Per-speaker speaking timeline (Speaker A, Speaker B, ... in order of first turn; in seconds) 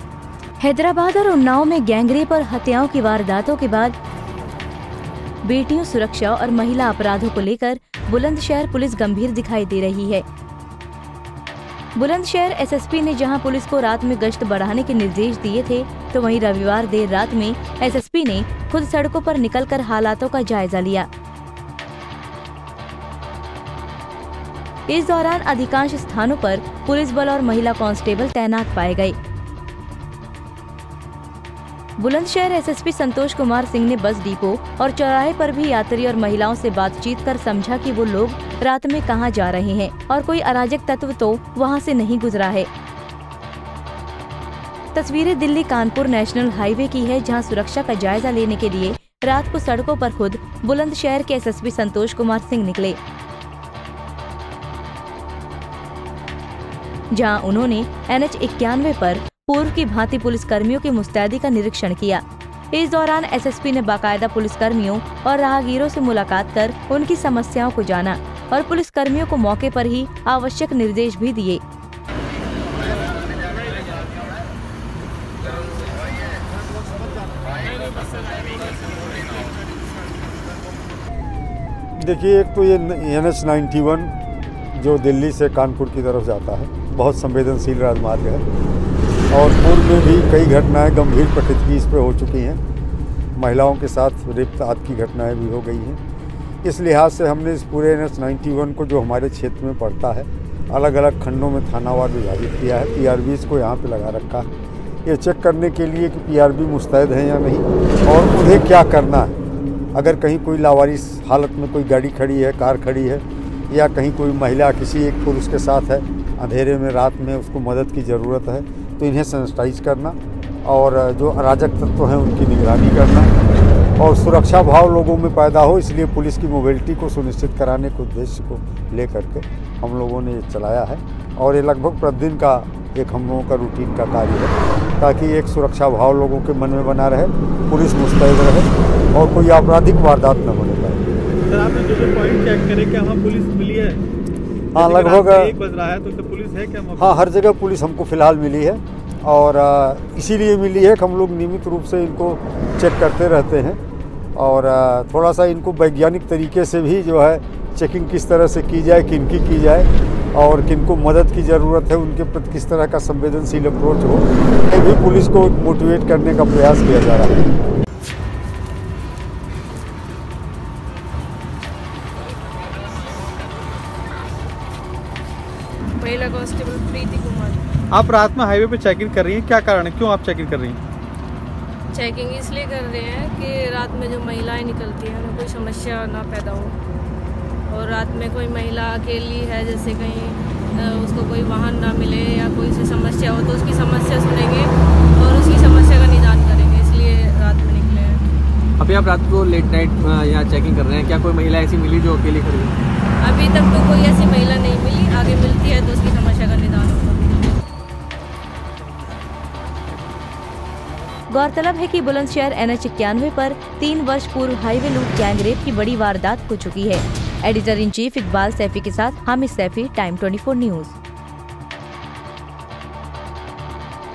Speaker A: 0.6-4.0, 5.5-10.2, 12.0-21.1, 24.9-29.1, 32.0-42.7, 45.0-53.0, 57.1-62.2, 62.7-71.6, 211.3-221.0
Speaker B: 82.0-84.1, 84.8-88.4, 89.3-92.6, 93.4-96.0, 96.6-104.5, 105.0-109.4, 109.9-123.3, 124.0-141.0, 144.8-145.5, 147.0-153.8, 154.3-167.5
Speaker C: 141.5-144.0, 144.8-147.2, 177.9-180.8
Speaker D: 176.0-177.6, 181.9-186.8, 187.7-198.2, 203.2-207.4
Speaker E: 198.8-202.7